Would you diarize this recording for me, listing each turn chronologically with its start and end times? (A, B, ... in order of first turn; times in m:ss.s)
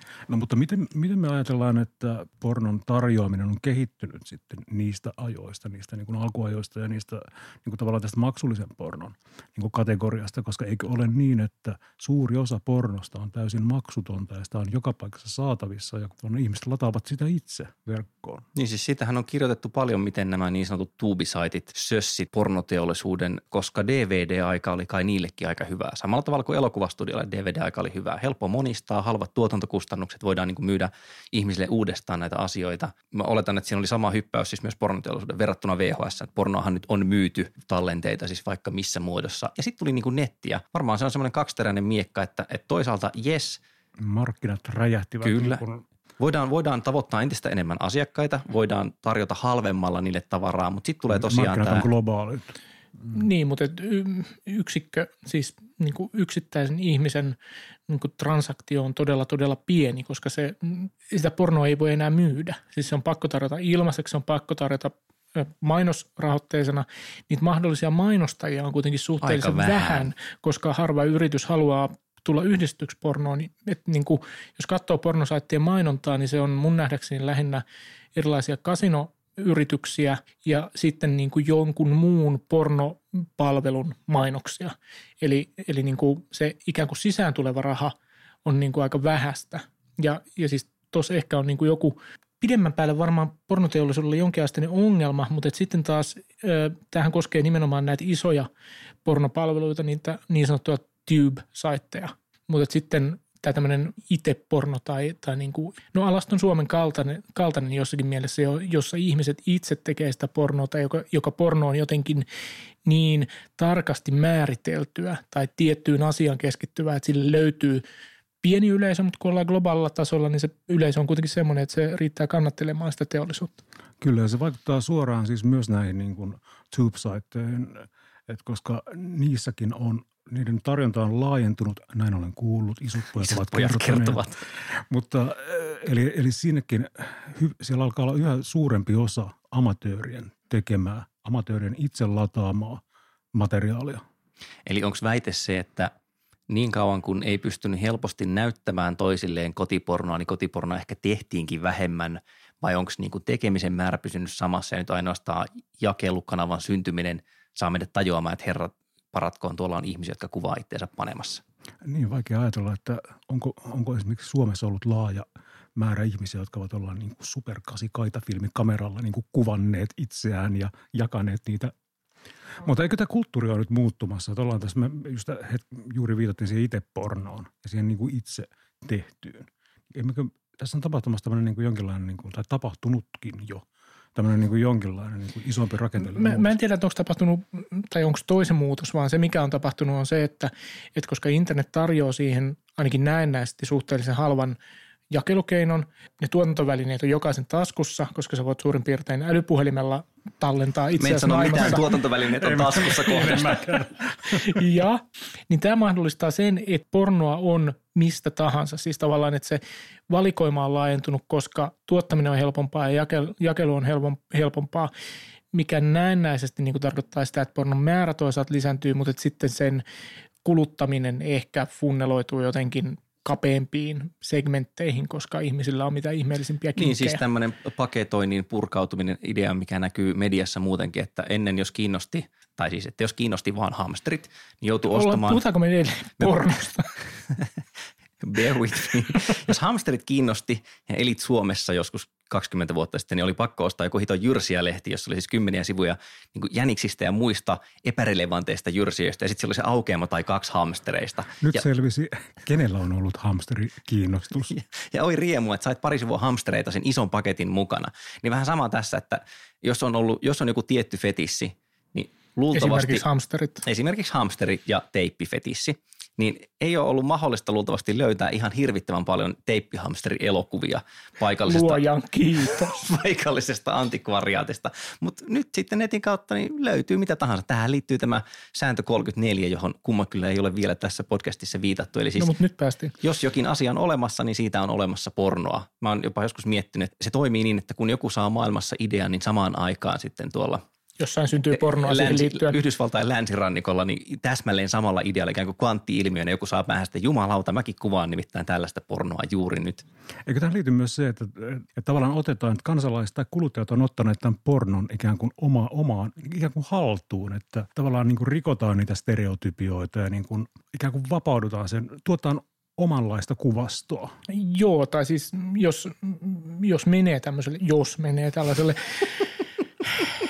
0:00.3-0:18.4 A
0:18.5-0:43.6 B
0:44.0-0:45.8 A
0:45.2-0:45.6 B
0:46.2-0:51.8 B
0:51.1-0:52.4 A
0:53.1-0:57.4 C
0:57.9-1:17.6 C
1:09.2-1:10.1 B
1:18.2-1:27.9 C
1:28.4-1:38.5 C
1:39.0-1:52.2 C
1:52.8-1:57.8 C
1:58.4-2:03.6 C
2:04.0-2:14.2 A
2:13.2-2:14.4 B
2:14.9-2:22.8 A
2:23.3-2:24.0 A
2:24.6-2:25.9 B
2:26.5-2:41.4 B
2:41.8-2:51.7 A
2:52.6-3:06.5 A
3:06.0-3:14.6 C
3:15.1-3:21.8 C
3:21.0-3:23.7 B
3:22.4-3:24.6 A
3:24.3-3:34.9 C
3:35.5-3:39.8 C
3:40.4-3:47.2 C
3:46.8-3:55.4 B
3:54.9-3:56.9 C
3:58.2-4:11.6 B
4:11.4-4:14.5 A
4:14.5-4:23.0 B
4:22.5-4:23.6 C
4:23.6-4:31.8 B
4:31.4-4:32.7 C
4:32.4-4:42.3 B
4:42.2-4:42.9 C
4:43.0-4:50.6 B
4:51.0-4:52.6 C
4:51.6-4:59.8 B
5:00.2-5:14.1 A
5:14.3-5:19.2 C